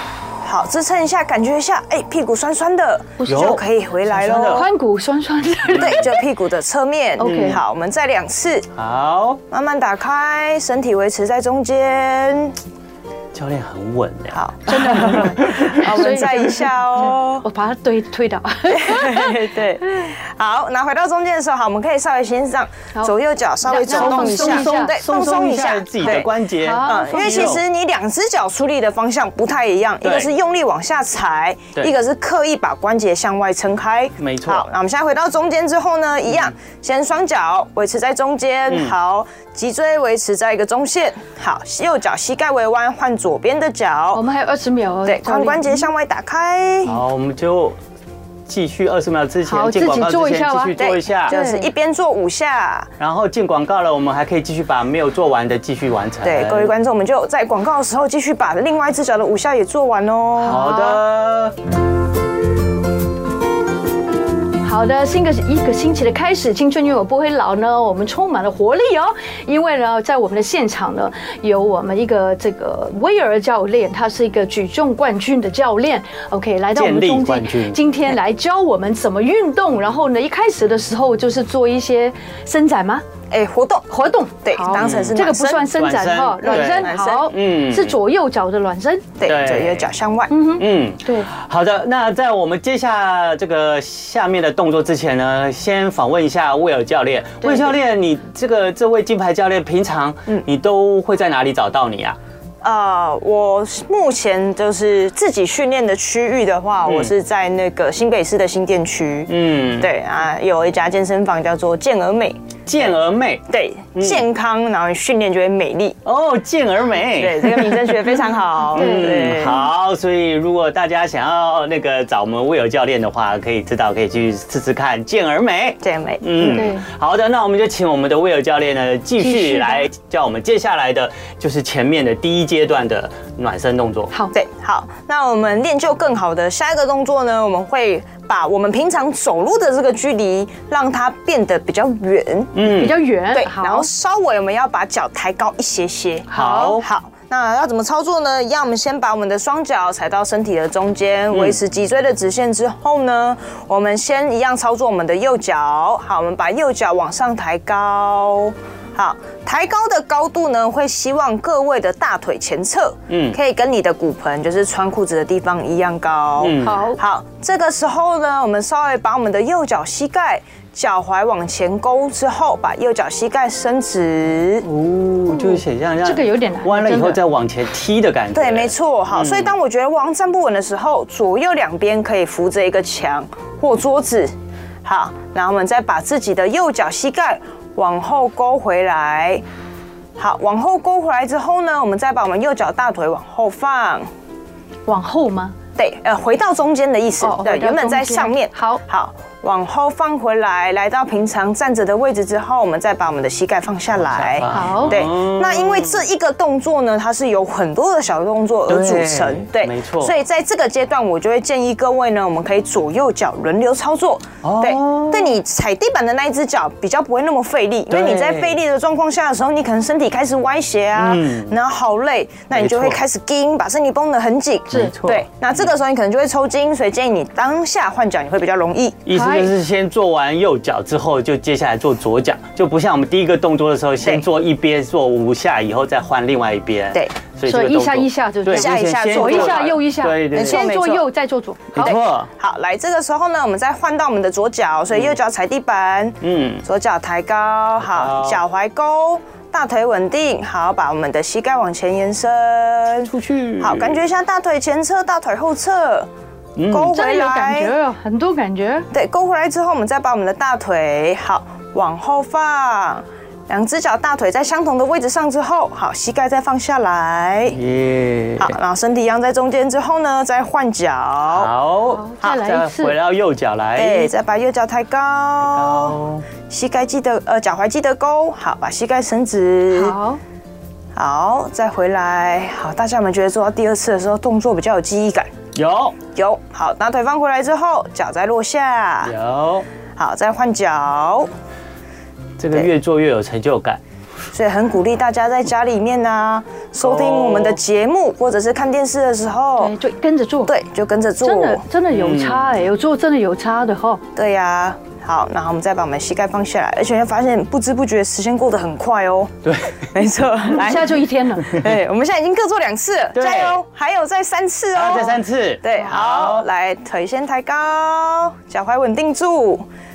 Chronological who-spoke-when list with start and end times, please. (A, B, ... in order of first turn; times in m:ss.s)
0:00.4-0:04.7 A
0:03.2-0:03.6 B
0:03.3-0:04.7 C
0:04.5-0:06.2 B
0:05.7-0:06.0 C
0:05.7-0:08.7 A
0:07.2-0:07.6 B
0:07.2-0:07.6 C
0:08.8-0:09.4 C
0:09.5-0:12.6 A
0:13.3-0:15.9 C
0:14.3-0:17.4 A
0:14.7-0:16.7 B
0:17.4-0:20.1 B
0:18.7-0:26.3 A
0:23.6-0:24.9 B
0:23.9-0:27.6 C
0:26.6-0:27.6 B
0:26.8-0:44.2 A
0:30.0-0:30.3 C
0:34.2-0:34.7 C
0:38.7-0:38.9 C
0:44.1-0:45.9 B
0:45.1-0:47.0 A
0:46.8-0:47.8 C
0:48.5-0:51.3 C
0:49.5-0:50.8 B
0:50.8-0:52.9 A
0:51.3-0:51.7 B
0:53.0-0:56.7 C
0:56.2-1:00.7 A
1:00.4-1:01.0 B
1:00.5-1:01.6 C
1:04.6-1:23.0 B
1:16.8-1:17.8 C
1:23.3-1:23.9 A
1:23.9-1:29.1 B
1:24.4-1:25.7 A
1:24.8-1:28.0 C
1:26.4-1:27.3 A
1:29.2-1:30.3 A
1:29.2-1:29.9 C
1:30.3-1:31.3 B
1:30.6-1:42.2 C
1:42.6-1:52.9 A
1:46.9-1:47.1 C
1:49.3-1:49.9 C
1:52.7-1:53.4 C
1:53.5-1:56.0 A
1:54.0-1:54.2 C
1:56.0-1:58.0 C
1:57.2-1:59.6 A
1:58.7-2:14.1 C
1:58.8-1:59.7 B
2:05.8-2:06.7 A
2:06.4-2:06.8 B
2:09.2-2:09.9 B
2:14.3-2:22.6 A
2:22.6-2:23.0 C
2:22.6-2:23.9 B
2:23.3-2:54.7 A
2:26.3-2:26.8 B
2:26.3-2:26.9 C
2:31.3-2:31.6 C
2:43.1-2:43.4 C
2:46.4-2:46.8 C
2:46.6-2:47.0 B
2:54.6-2:59.5 C
2:55.3-2:57.2 B
2:58.3-3:04.3 A
3:04.8-3:09.4 A
3:10.2-3:14.1 A
3:14.9-3:15.6 B
3:15.8-3:49.0 A
3:17.2-3:18.8 B
3:24.0-3:26.1 C
3:24.5-3:25.0 B
3:28.7-3:30.1 C
3:34.4-3:35.4 C
3:37.9-3:38.6 C
3:41.0-3:41.6 C
3:42.5-3:43.0 C
3:44.7-3:45.7 C
3:49.0-4:00.7 C
3:49.1-3:49.5 B
3:57.5-4:02.0 B
3:58.5-3:59.8 A
4:00.3-4:01.0 A
4:01.8-4:02.3 C
4:01.8-4:16.1 A
4:04.9-4:05.2 C
4:06.2-4:06.6 C
4:07.8-4:08.4 C
4:13.1-4:14.0 C
4:16.6-4:17.0 C
4:16.7-4:17.8 A
4:16.9-4:18.9 B
4:18.9-4:27.6 A
4:27.5-4:28.6 C
4:28.4-4:31.5 A
4:31.3-4:34.1 C
4:31.9-4:33.0 B
4:33.8-4:36.0 A
4:35.4-4:36.3 C
4:36.5-4:40.0 A
4:39.7-4:40.2 B
4:41.0-4:45.3 A
4:45.6-4:46.0 C
4:46.1-4:49.1 A
4:49.0-4:49.7 C
4:50.0-4:51.3 A
4:52.4-4:53.8 C
4:54.3-4:59.7 A
4:56.8-4:57.6 C
4:59.6-5:00.5 B
5:00.5-5:01.6 A
5:01.2-5:04.0 B
5:01.9-5:02.5 C
5:04.2-5:09.4 A
5:09.4-5:09.9 C
5:09.9-5:19.7 A
5:10.5-5:11.6 B
5:13.2-5:13.6 C
5:14.7-5:16.5 C